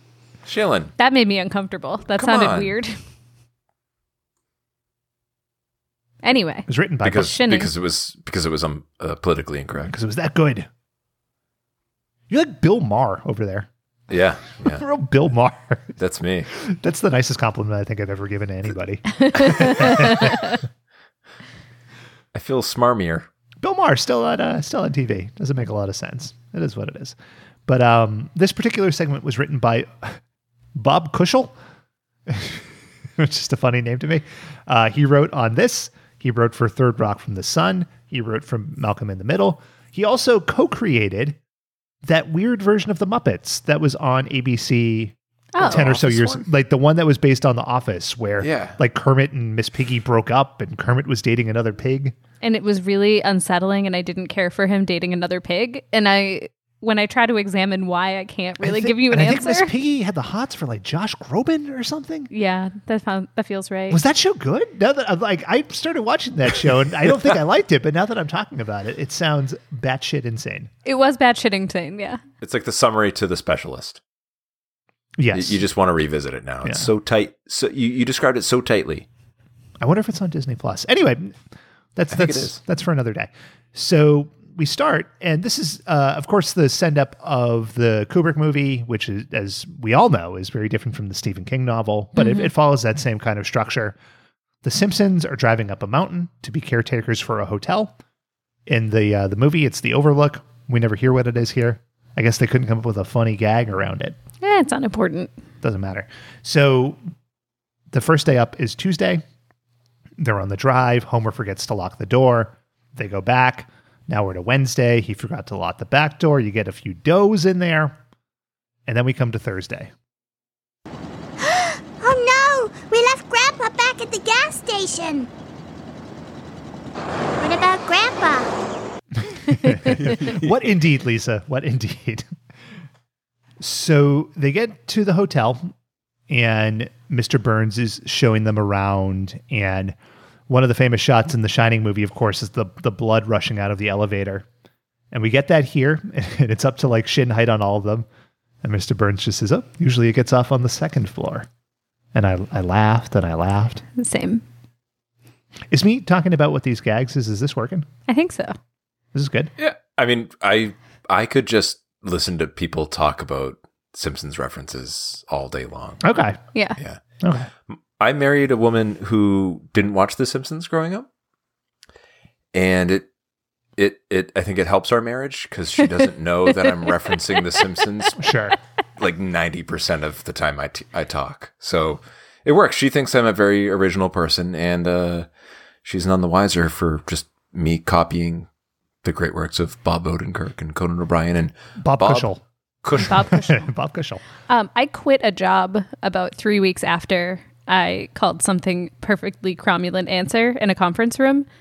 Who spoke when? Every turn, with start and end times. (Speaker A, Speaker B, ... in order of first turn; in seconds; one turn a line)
Speaker A: 0.5-0.9
Speaker B: 1.0-3.0
Speaker A: 2.1-2.7
Speaker B: 6.2-7.7
Speaker C: 6.7-7.4
Speaker A: 7.0-9.9
Speaker C: 9.9-10.7
Speaker C: 12.3-13.7
Speaker A: 14.1-14.9
Speaker C: 14.7-15.9
Speaker A: 16.0-16.5
Speaker C: 16.5-20.6
Speaker B: 19.2-20.6
Speaker A: 22.3-23.3
Speaker C: 23.6-27.2
Speaker C: 27.7-30.2
Speaker C: 30.8-31.6
Speaker C: 32.3-32.6
Speaker C: 33.2-41.4
Speaker C: 42.0-52.1
Speaker B: 45.5-46.0
Speaker A: 45.6-46.5
Speaker A: 48.4-48.8
Speaker B: 52.4-59.7
Speaker C: 58.6-62.3
Speaker B: 62.3-64.0
Speaker C: 63.9-70.7
Speaker B: 70.8-72.2
Speaker A: 72.4-74.0
Speaker C: 75.2-75.7
Speaker A: 75.3-79.1
Speaker C: 76.6-76.9
Speaker C: 79.8-81.4
Speaker C: 82.0-94.0
Speaker A: 82.1-82.6
Speaker B: 92.2-92.5
Speaker C: 94.6-98.0
Speaker C: 98.7-104.2
Speaker B: 104.4-105.3
Speaker C: 105.6-107.0
Speaker C: 107.9-109.2
Speaker C: 110.2-118.0
Speaker C: 118.9-119.9
Speaker D: 121.4-125.3
Speaker D: 127.4-128.5
Speaker C: 129.2-132.3
Speaker A: 129.9-130.8
Speaker C: 133.6-135.7
Speaker C: 136.3-140.0
Speaker C: 140.5-144.5
Speaker C: 145.1-148.1
Speaker C: 148.6-151.5
Speaker C: 152.1-153.8
Speaker B: 154.0-154.4
Speaker C: 155.7-157.9
Speaker B: 158.1-158.6
Speaker C: 159.1-159.5
Speaker A: 159.6-166.0
Speaker C: 166.0-166.4
Speaker C: 167.2-167.5
Speaker A: 167.7-171.1
Speaker A: 172.5-173.1
Speaker A: 173.8-178.2
Speaker C: 178.2-178.6
Speaker A: 179.0-185.3
Speaker A: 185.8-188.5
Speaker A: 189.0-192.3
Speaker C: 191.8-192.4
Speaker A: 192.8-193.2
Speaker B: 193.0-193.7
Speaker C: 193.0-194.2
Speaker B: 194.5-201.5